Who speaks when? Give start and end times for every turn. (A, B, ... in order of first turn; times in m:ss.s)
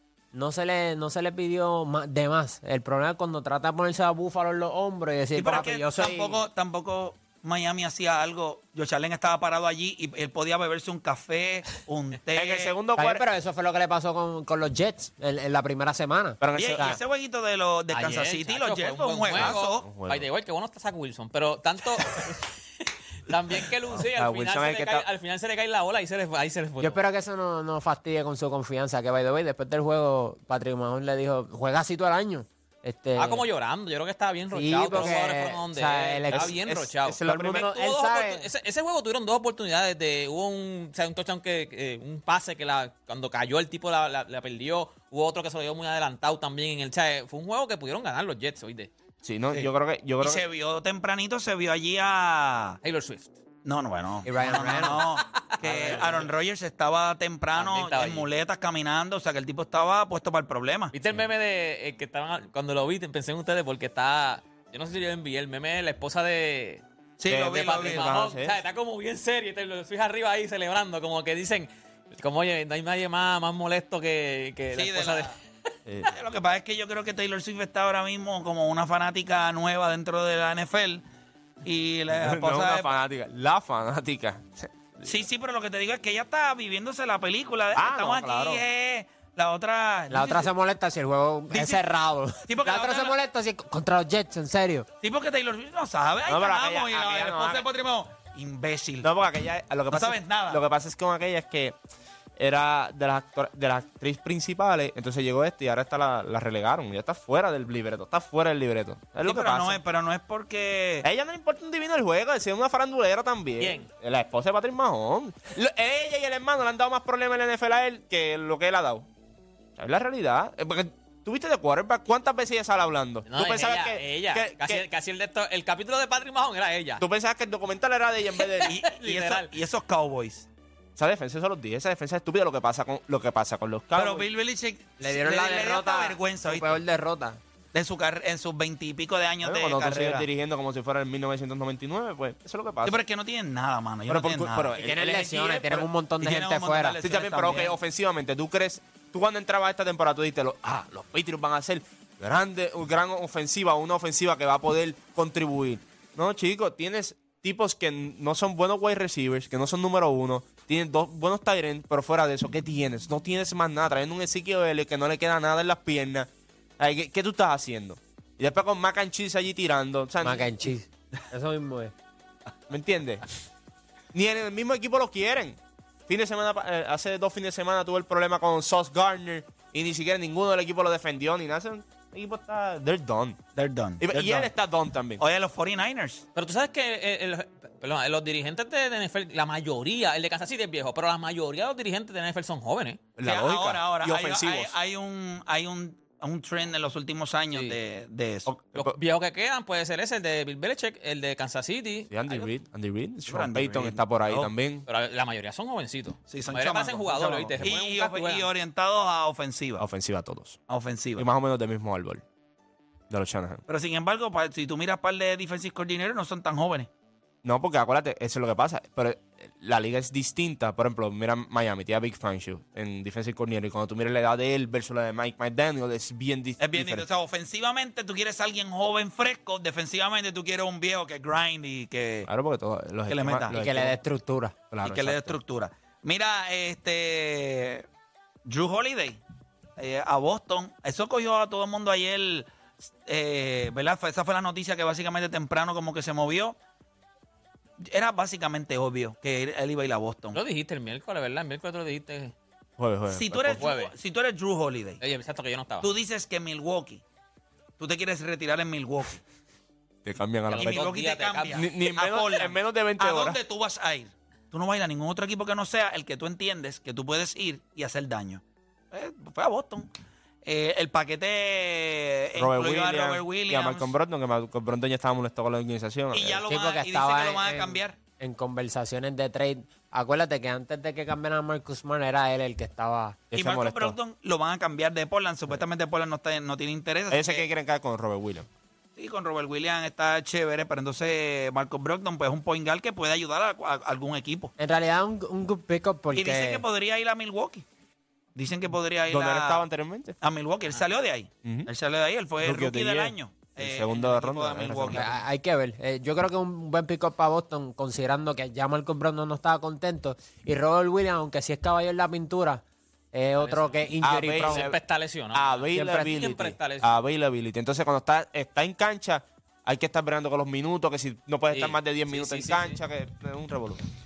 0:00.3-0:06.4 A
0:05.4-0:12.8 B
0:12.3-0:13.2 C
0:13.0-0:17.0 A
0:16.4-0:17.0 C
0:16.6-0:19.9 B
0:17.9-0:27.0 D
0:19.3-0:20.3 C
0:24.0-0:25.1 C
0:26.8-0:33.4 A
0:33.2-0:48.9 D
0:34.5-0:36.6 A
0:36.3-0:37.7 C
0:37.2-0:38.5 A
0:49.2-0:50.4 C
0:50.2-0:52.8 B
0:52.8-0:53.3 D
0:53.6-1:00.9 B
0:54.2-0:55.1 A
0:54.6-0:56.3 D
0:57.6-0:58.3 D
1:00.9-1:15.4 D
1:07.2-1:08.1 B
1:07.3-1:08.6 C
1:14.7-1:15.4 B
1:15.9-1:16.2 C
1:16.1-1:21.0 B
1:21.6-1:22.9 B
1:22.1-1:25.3 C
1:25.0-1:30.5 B
1:27.7-1:28.6 C
1:30.1-1:34.9 A
1:31.5-1:31.8 B
1:32.5-1:33.1 B
1:35.0-1:39.1 B
1:36.3-1:37.7 C
1:39.0-1:41.8 C
1:39.9-1:40.6 B
1:42.4-1:49.8 C
1:49.2-1:51.1 B
1:51.0-1:59.1 C
1:53.6-1:53.9 D
1:59.8-2:04.8 C
2:03.3-2:07.0 D
2:07.0-2:08.7 C
2:08.4-2:09.5 D
2:08.7-2:10.5 B
2:11.0-2:14.3 C
2:14.0-2:16.8 B
2:15.0-2:17.4 A
2:17.7-2:20.3 B
2:19.4-2:23.0 C
2:22.8-2:25.0 B
2:24.1-2:25.9 C
2:24.8-2:27.6 A
2:26.2-2:27.8 B
2:27.0-2:50.6 C
2:50.2-2:51.9 A
2:52.7-2:53.2 C
2:54.1-3:03.4 C
3:03.6-3:04.5 B
3:04.0-3:05.2 C
3:05.2-3:06.2 B
3:06.4-3:13.0 D
3:13.2-3:14.8 C
3:13.2-3:18.5 B
3:18.5-3:19.0 C
3:18.7-3:22.2 D
3:22.1-3:24.9 C
3:23.3-3:24.5 B
3:24.9-3:28.5 D
3:26.3-3:29.8 B
3:29.8-3:30.6 C
3:30.7-3:31.2 B
3:31.2-3:32.2 C
3:33.1-3:33.6 C
3:33.7-3:36.9 B
3:37.4-3:47.1 C
3:46.6-3:52.3 B
3:52.3-3:54.0 C
3:53.1-3:53.6 B
3:53.5-3:54.6 A
3:54.7-3:55.4 C
3:54.8-3:57.9 B
3:58.4-3:59.2 B
3:59.8-4:06.6 B
4:07.8-4:10.4 B
4:10.3-4:12.3 D
4:12.8-4:13.7 C
4:13.1-4:15.0 B
4:13.5-4:13.9 D
4:15.0-4:15.9 D
4:15.8-4:17.0 B
4:17.8-4:19.2 B
4:20.0-4:20.9 C
4:20.5-4:21.7 D
4:20.6-4:29.9 B
4:21.5-4:23.4 C
4:30.4-4:33.9 B
4:32.4-4:36.4 C
4:36.1-4:38.0 B
4:36.5-4:43.2 A
4:43.3-4:44.0 C
4:43.4-4:47.5 B
4:47.1-4:48.5 C
4:49.0-4:54.5 B
4:54.6-4:56.6 A
4:56.1-4:57.6 B
4:58.4-4:59.6 B
4:59.1-5:00.2 C
5:00.2-5:05.1 B
5:01.4-5:01.7 C
5:02.4-5:05.2 C
5:04.9-5:14.7 A
5:13.4-5:17.0 D
5:14.0-5:14.8 C
5:15.3-5:23.8 C
5:15.8-5:16.1 A
5:21.5-5:22.8 D